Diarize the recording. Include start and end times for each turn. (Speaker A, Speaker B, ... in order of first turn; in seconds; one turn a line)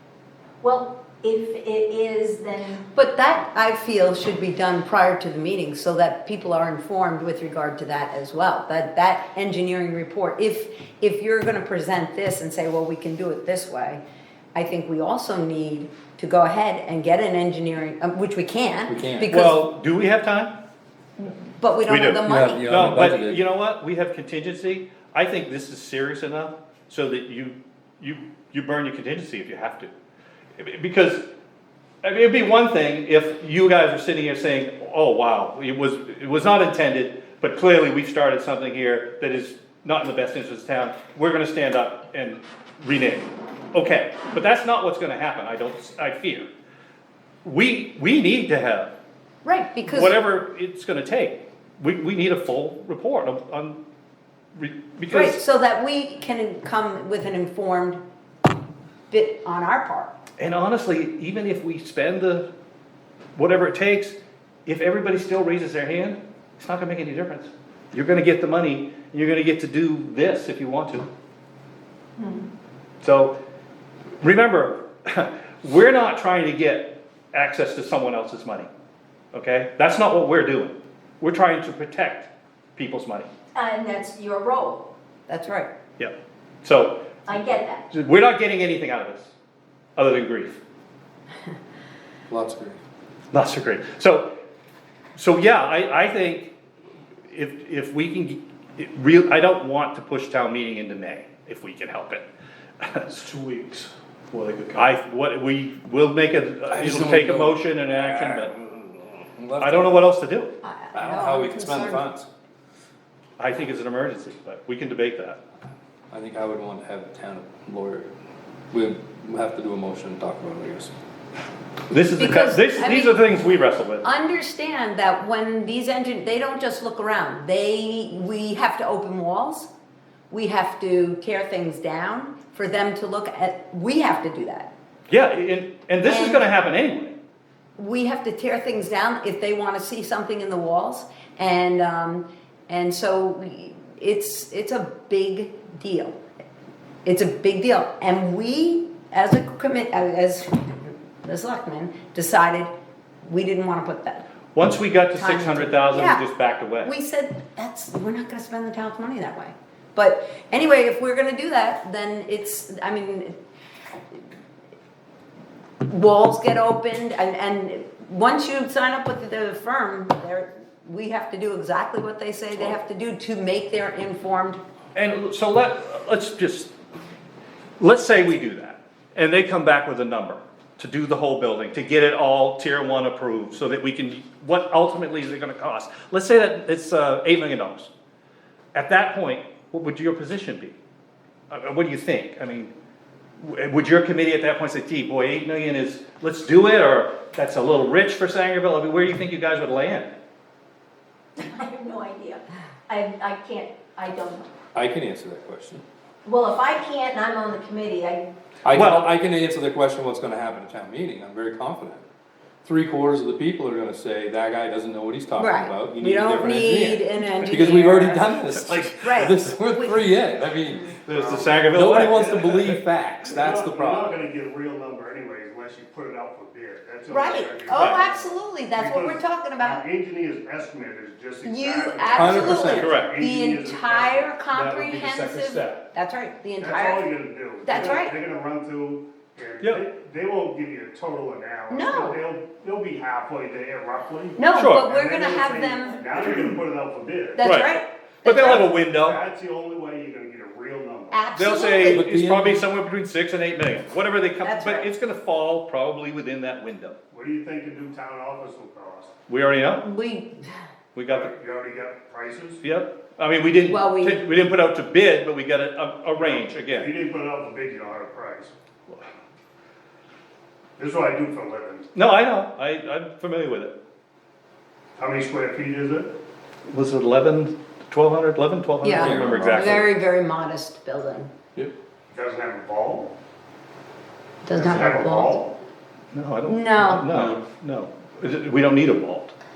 Speaker A: 0.6-2.8
Speaker B: 2.9-14.0
Speaker B: 14.6-19.6
Speaker C: 18.9-19.3
Speaker D: 19.3-20.5
Speaker B: 21.2-23.0
Speaker D: 21.9-29.9
Speaker C: 22.2-23.4
Speaker D: 30.6-31.3
Speaker D: 32.0-46.5
Speaker D: 47.4-48.9
Speaker B: 49.5-50.2
Speaker D: 49.9-53.8
Speaker D: 54.6-55.4
Speaker B: 55.1-58.0
Speaker B: 59.1-60.1
Speaker D: 60.4-62.5
Speaker D: 63.4-71.1
Speaker A: 72.2-72.5
Speaker D: 73.0-73.4
Speaker D: 74.2-78.7
Speaker D: 79.3-83.3
Speaker A: 83.5-84.9
Speaker B: 85.3-85.7
Speaker D: 86.0-87.1
Speaker A: 87.3-87.8
Speaker D: 87.9-89.3
Speaker D: 90.0-90.6
Speaker C: 92.3-92.8
Speaker D: 93.3-94.3
Speaker D: 95.2-96.5
Speaker D: 97.3-102.2
Speaker D: 102.8-108.5
Speaker C: 106.7-110.1
Speaker D: 109.6-110.5
Speaker B: 110.6-112.0
Speaker C: 110.9-112.3
Speaker D: 113.4-115.4
Speaker C: 116.1-118.1
Speaker C: 118.7-120.9
Speaker D: 121.9-124.1
Speaker B: 122.2-129.7
Speaker B: 130.3-134.7
Speaker D: 135.1-137.2
Speaker B: 136.1-136.5
Speaker B: 137.8-146.2
Speaker B: 147.1-152.7
Speaker B: 153.2-154.2
Speaker D: 154.5-156.9
Speaker B: 155.2-156.2
Speaker B: 156.8-163.3
Speaker B: 165.8-174.6
Speaker D: 174.9-176.7
Speaker D: 177.8-187.9
Speaker D: 188.7-190.8
Speaker D: 191.5-192.7
Speaker D: 193.4-200.2
Speaker A: 201.4-204.5
Speaker C: 204.7-205.8
Speaker A: 206.2-208.3
Speaker C: 208.6-212.0
Speaker D: 208.7-209.1
Speaker C: 212.6-220.9
Speaker B: 215.4-220.1
Speaker D: 221.1-222.8
Speaker E: 221.1-222.4
Speaker C: 221.7-224.1
Speaker E: 223.2-234.4
Speaker B: 227.1-229.8
Speaker D: 227.7-228.1
Speaker B: 231.4-238.2
Speaker C: 232.1-233.0
Speaker D: 232.7-233.2
Speaker D: 234.5-235.8
Speaker E: 236.6-247.6
Speaker B: 241.7-242.2
Speaker B: 244.4-246.6
Speaker D: 244.5-244.9
Speaker B: 247.3-248.7
Speaker D: 247.4-249.2
Speaker E: 248.4-251.3
Speaker B: 251.1-252.0
Speaker D: 251.3-257.0
Speaker C: 251.8-252.7
Speaker B: 254.4-254.9
Speaker E: 257.1-259.1
Speaker D: 259.3-259.9
Speaker B: 259.8-260.4
Speaker D: 260.9-261.3
Speaker E: 261.1-262.6
Speaker D: 262.6-266.9
Speaker B: 263.7-264.3
Speaker E: 266.1-268.5
Speaker E: 270.8-271.9
Speaker D: 271.9-273.8
Speaker E: 275.0-276.1
Speaker D: 276.7-279.9
Speaker B: 278.8-281.3
Speaker C: 278.9-279.9
Speaker E: 282.1-283.1
Speaker B: 284.4-285.4
Speaker E: 284.5-285.6
Speaker D: 286.1-289.3
Speaker B: 286.5-287.1
Speaker C: 287.1-287.4